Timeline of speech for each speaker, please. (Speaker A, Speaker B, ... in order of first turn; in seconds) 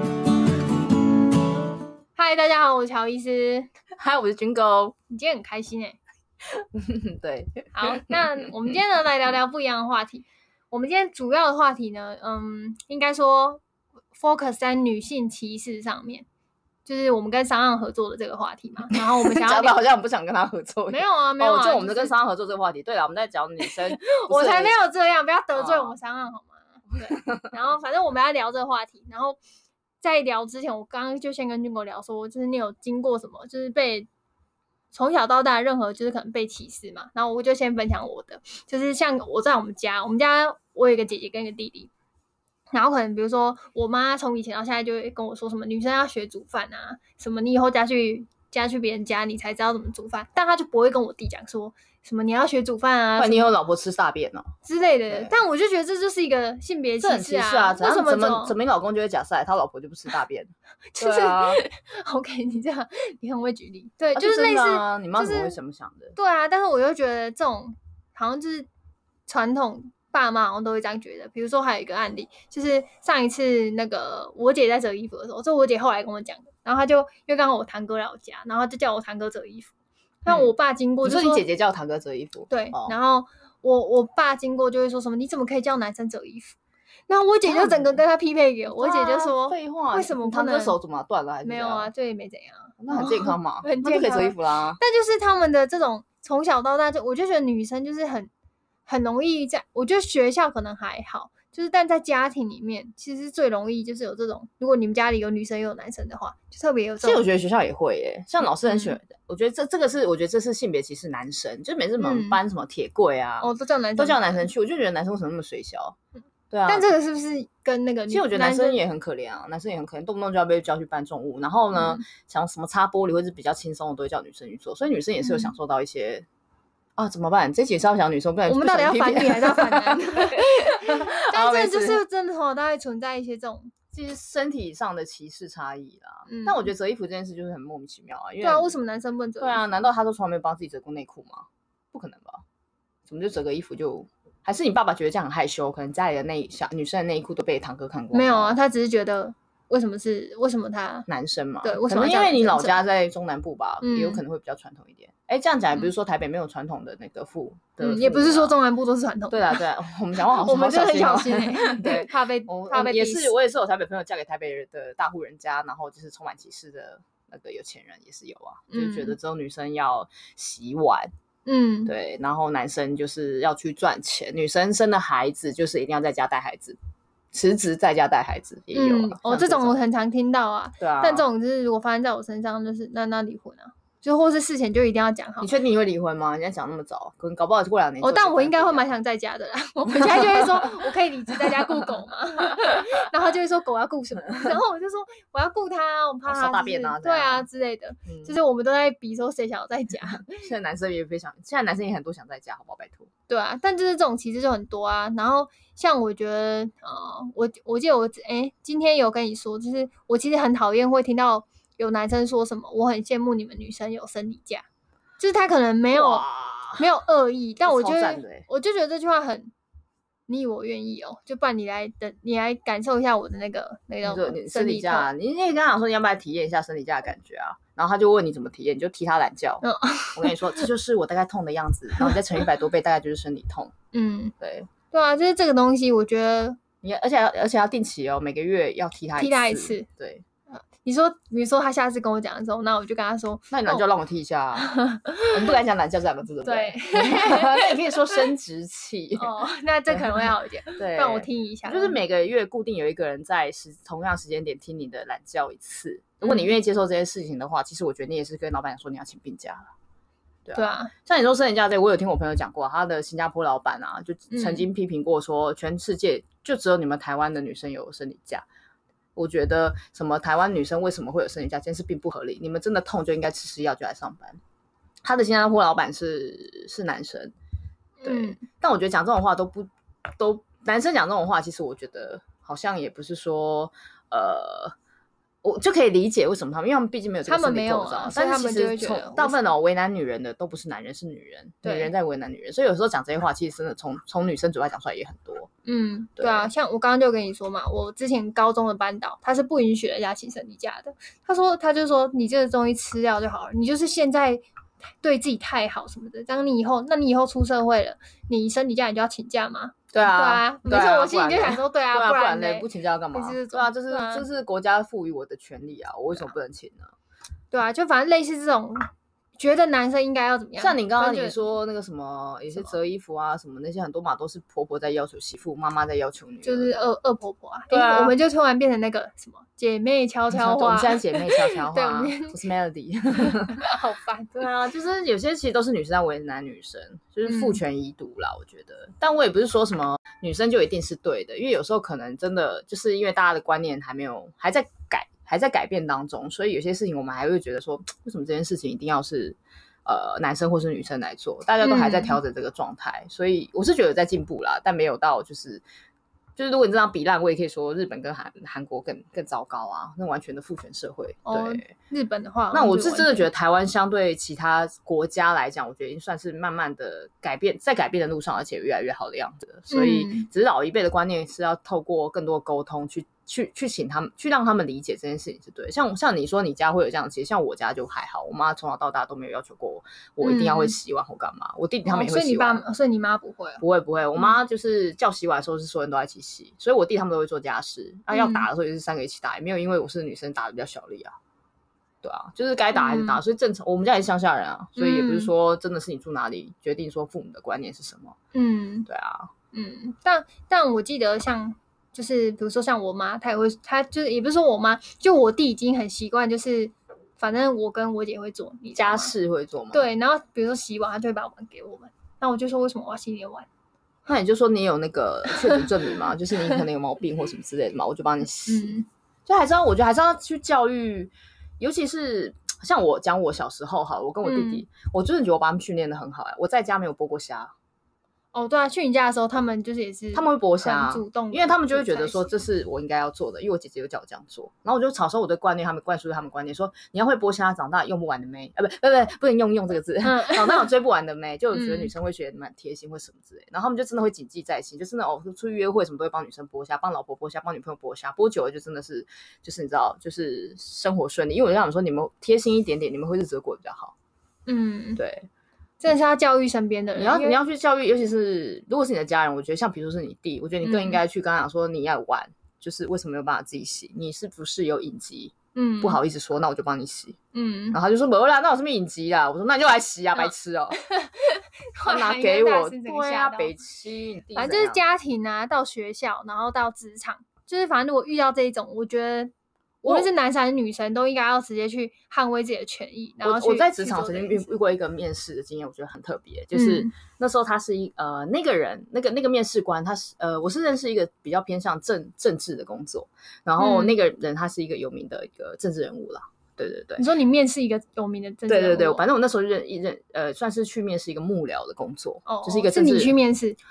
Speaker A: 2.1-3.7, 5.1-6.0, 7.7-13.6, 14.1-16.2, 16.8-19.8, 20.9-22.2, 23.6-29.4, 30.0-34.1, 34.9-41.9, 42.7-53.5, 54.6-58.5, 61.0-65.5, 66.1-68.7, 69.3-79.7, 80.2-81.4, 82.5-86.6, 87.1-90.8, 91.4-98.3, 98.8-107.2, 108.6-109.0, 112.0-112.4, 113.4-114.5, 116.7-118.8, 121.7-122.0, 125.2-125.5, 128.5-133.7, 136.3-136.7, 138.4-139.6, 148.1-151.1, 151.6-152.8, 153.8-154.2, 157.8-159.6, 160.2-163.3, 168.7-169.2, 171.4-171.9, 178.7-185.5, 188.0-200.3, 203.3-214.6, 215.2-216.2, 216.8-219.5, 220.3-225.1, 229.6-230.6, 233.9-234.3, 234.9-236.6, 239.2-239.9, 240.6-243.8, 244.6-245.3, 246.4-247.7, 249.1-252.0, 256.2-256.5, 260.5-260.9, 264.3-264.6, 278.0-278.4, 287.2-289.4, 291.6-291.9, 295.6-304.4, 305.0-314.3, 317.5-321.5, 322.5-322.7, 326.4-332.4, 333.3-334.5, 337.2-337.6, 351.6-352.2, 361.2-363.3, 369.7-370.3, 380.2-380.7, 381.9-383.6, 388.1-388.5, 392.7-393.2, 394.8-395.3, 398.3-398.9, 399.5-409.1, 409.7-413.5, 415.3-415.7, 418.4-418.9, 424.2-424.6, 428.3-432.3, 440.0-440.7, 441.5-441.9, 454.5-455.0, 455.8-457.4, 460.6-461.0, 465.5-466.0, 467.3-467.8, 470.8-473.5, 474.3-484.5, 486.5-486.9, 493.6-493.9, 497.0-499.0, 502.2-503.6
Speaker B: 4.0-4.9, 6.6-8.2, 18.9-24.7, 25.6-25.9, 53.2-54.5, 55.1-55.4, 57.0-61.6, 64.1-66.1, 81.0-83.0, 87.5-88.0, 88.7-91.9, 92.8-94.8, 107.0-116.0, 116.5-116.9, 118.1-126.2, 127.0-132.0, 133.9-138.8, 139.4-142.4, 143.1-148.6, 151.1-158.5, 159.3-171.1, 171.9-176.8, 177.3-179.7, 180.8-181.2, 185.4-188.9, 189.9-190.9, 196.3-197.5, 198.1-198.3, 200.3-203.1, 215.9-216.8, 217.6-218.4, 224.0-229.6, 230.1-233.7, 234.4-234.7, 236.8-240.2, 243.5-244.7, 245.3-249.3, 250.8-259.7, 260.4-268.4, 269.1-274.4, 275.0-277.3, 278.0-284.7, 285.4-295.5, 296.2-296.5, 309.9-316.9, 320.6-326.8, 327.7-328.1, 330.3-333.6, 334.4-355.6, 356.4-361.7, 362.5-382.6, 383.6-391.1, 392.0-398.1, 398.9-399.3, 408.8-409.9, 414.1-418.7, 419.3-427.5, 430.1-453.9, 455.0-455.3, 457.0-467.2, 467.7-470.8, 471.9-474.8, 483.2-497.1, 498.5-503.2